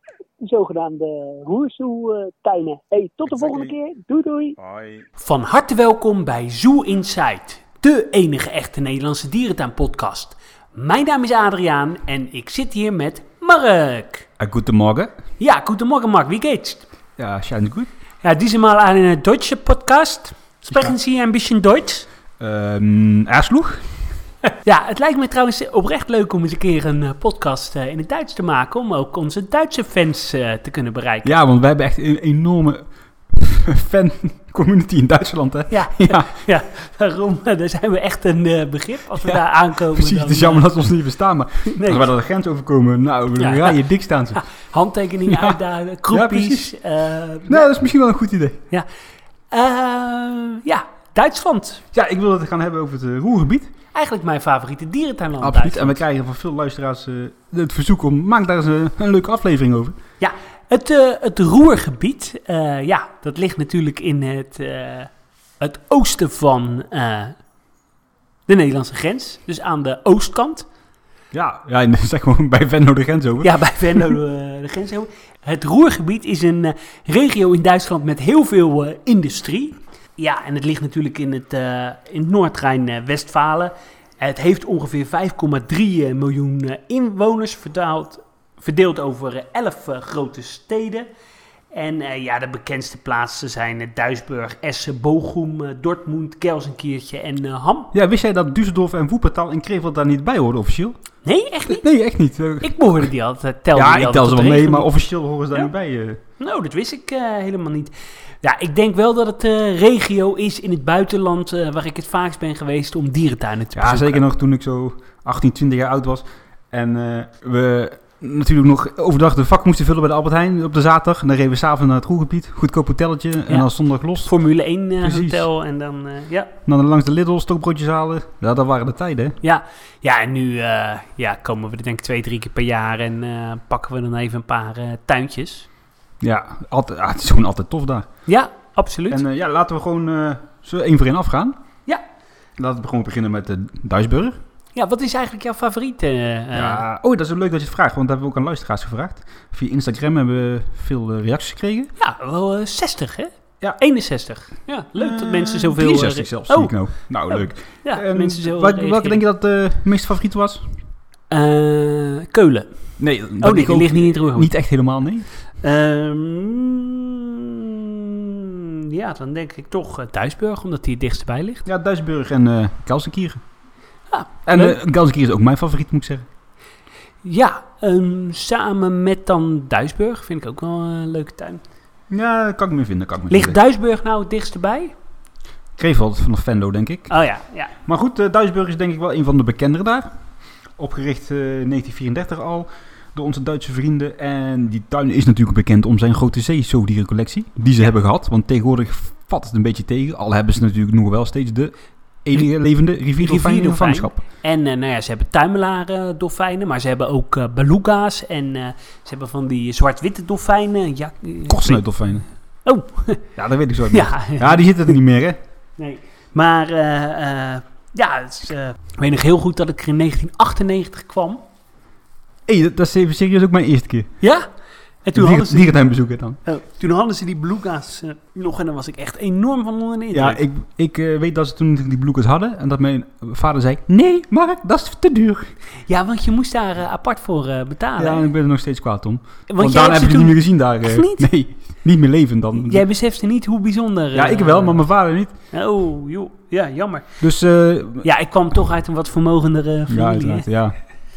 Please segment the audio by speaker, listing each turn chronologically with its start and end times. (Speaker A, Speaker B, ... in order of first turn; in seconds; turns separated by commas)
Speaker A: 0.4-4.6, Speaker B: 3.2-3.7, Speaker B: 4.6-5.1, Speaker C: 5.2-14.3, Speaker B: 14.4-15.1, Speaker C: 15.4-16.9, Speaker B: 17.2-17.9, Speaker C: 18.2-22.1, Speaker B: 22.4-24.1, Speaker C: 24.6-31.3, Speaker B: 31.2-36.3, Speaker C: 35.7-40.7, Speaker B: 39.9-44.4, Speaker C: 41.7-42.1, Speaker C: 43.4-43.8, Speaker C: 44.3-47.8, Speaker B: 45.2-46.7, Speaker B: 47.5-48.6, Speaker C: 49.5-51.8, Speaker B: 51.9-53.7, Speaker C: 53.9-56.0, Speaker B: 55.4-60.0, Speaker C: 60.2-67.3, Speaker C: 68.5-70.7, Speaker B: 71.3-74.2, Speaker C: 73.4-91.1, Speaker C: 91.7-97.9, Speaker B: 97.9-101.0, Speaker C: 101.2-101.9, Speaker B: 101.7-102.7, Speaker C: 102.6-104.9, Speaker B: 103.7-106.2, Speaker C: 106.4-114.2, Speaker B: 113.7-124.3, Speaker C: 124.2-126.5, Speaker B: 125.0-125.4, Speaker B: 126.7-129.4, Speaker C: 129.4-135.7, Speaker B: 136.2-138.1, Speaker C: 138.3-139.2, Speaker B: 139.1-141.6, Speaker B: 142.6-144.4, Speaker C: 144.7-146.8, Speaker B: 146.5-151.9, Speaker C: 152.0-159.2, Speaker B: 154.9-160.8, Speaker C: 161.3-164.5, Speaker B: 163.0-165.3, Speaker C: 165.6-171.6, Speaker B: 171.6-173.4, Speaker C: 174.1-174.8, Speaker B: 174.4-176.2, Speaker C: 177.2-181.6, Speaker B: 182.1-183.6, Speaker C: 183.3-184.9, Speaker B: 185.8-187.1, Speaker C: 187.1-187.7, Speaker B: 187.8-190.1, Speaker B: 190.7-204.2, Speaker C: 203.2-211.8, Speaker B: 211.5-212.3, Speaker C: 212.6-213.3, Speaker B: 213.3-215.4, Speaker C: 213.9-214.9, Speaker C: 215.8-221.4, Speaker B: 222.5-224.2, Speaker C: 224.2-224.5, Speaker C: 225.0-225.8, Speaker B: 225.1-226.4, Speaker C: 226.4-230.4, Speaker B: 230.1-235.5, Speaker C: 235.9-238.2, Speaker B: 238.0-242.8, Speaker C: 239.5-241.3, Speaker C: 242.6-244.9, Speaker B: 244.1-245.3, Speaker C: 245.5-247.3, Speaker B: 247.2-248.1, Speaker C: 248.0-250.5, Speaker B: 249.9-250.8